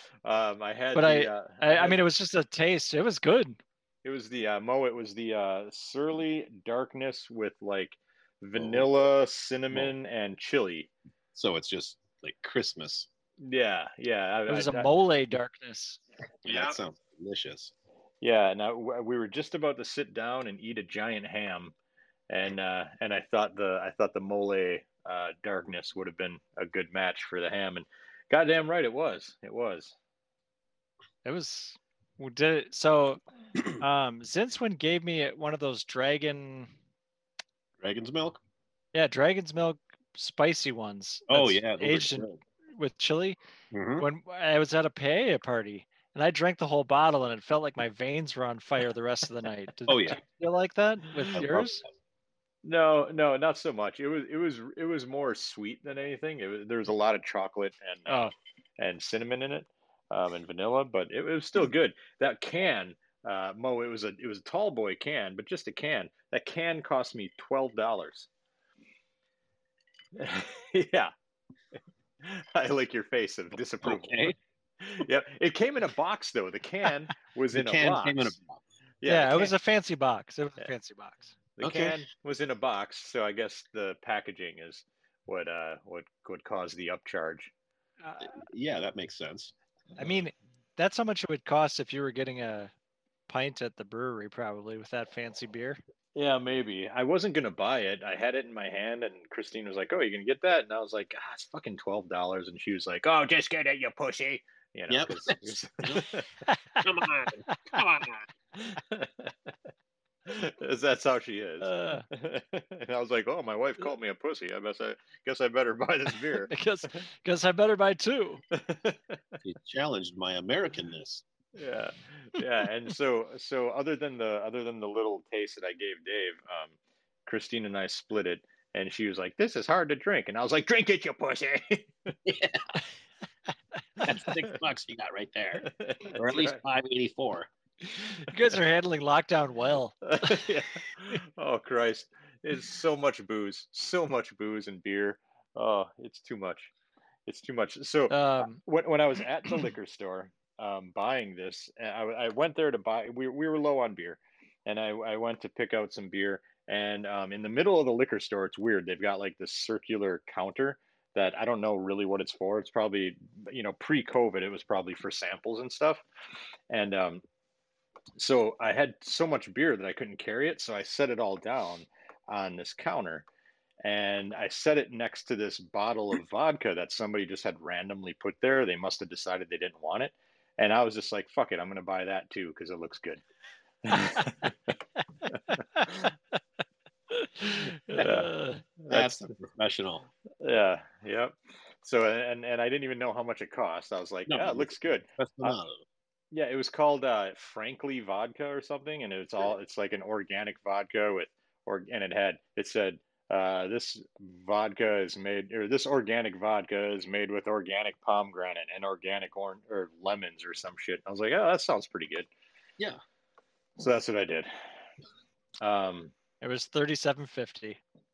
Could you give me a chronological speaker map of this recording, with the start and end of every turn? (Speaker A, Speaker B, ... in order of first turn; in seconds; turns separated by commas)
Speaker A: 0.2-2.0, Speaker B: 0.9-3.6, Speaker A: 4.0-10.9, Speaker C: 8.6-8.9, Speaker C: 11.3-13.1, Speaker A: 13.4-14.9, Speaker B: 14.5-16.0, Speaker C: 16.4-17.7, Speaker A: 16.5-16.8, Speaker A: 18.2-21.7, Speaker A: 22.3-29.9, Speaker B: 31.2-33.2, Speaker B: 33.8-36.7, Speaker C: 37.8-38.4, Speaker B: 38.9-43.4, Speaker C: 41.3-42.4, Speaker C: 43.7-44.1, Speaker B: 44.0-51.8, Speaker C: 49.9-50.2, Speaker C: 51.3-51.8, Speaker A: 52.6-58.2, Speaker B: 58.1-58.3, Speaker A: 58.8-68.3, Speaker A: 70.2-71.1, Speaker A: 72.2-78.4, Speaker C: 73.8-74.4, Speaker C: 77.5-78.6, Speaker A: 79.0-79.5, Speaker B: 79.0-81.3, Speaker A: 81.6-87.5, Speaker C: 81.6-82.0, Speaker B: 88.0-88.3, Speaker C: 88.2-89.5, Speaker B: 90.0-92.7, Speaker B: 93.3-95.8, Speaker A: 96.2-106.3, Speaker C: 104.9-106.1, Speaker B: 106.5-106.7, Speaker C: 106.8-108.2, Speaker A: 108.6-109.5, Speaker A: 110.3-116.5, Speaker B: 111.6-112.0, Speaker B: 116.1-118.4, Speaker A: 118.5-119.2, Speaker C: 119.4-121.2, Speaker A: 121.5-132.2, Speaker C: 132.3-132.6, Speaker C: 134.0-137.5, Speaker A: 135.6-136.6, Speaker B: 138.2-140.4, Speaker A: 140.1-146.7, Speaker A: 147.3-166.0, Speaker B: 148.1-148.6, Speaker A: 166.7-167.2, Speaker A: 168.2-173.3, Speaker A: 173.8-183.2, Speaker A: 183.8-184.6, Speaker B: 185.5-185.9, Speaker B: 187.1-188.6, Speaker A: 188.0-189.3, Speaker C: 188.9-190.1, Speaker A: 190.4-195.6, Speaker C: 194.3-195.8, Speaker A: 196.3-212.3, Speaker A: 213.8-214.5, Speaker A: 215.6-216.1, Speaker B: 216.4-217.8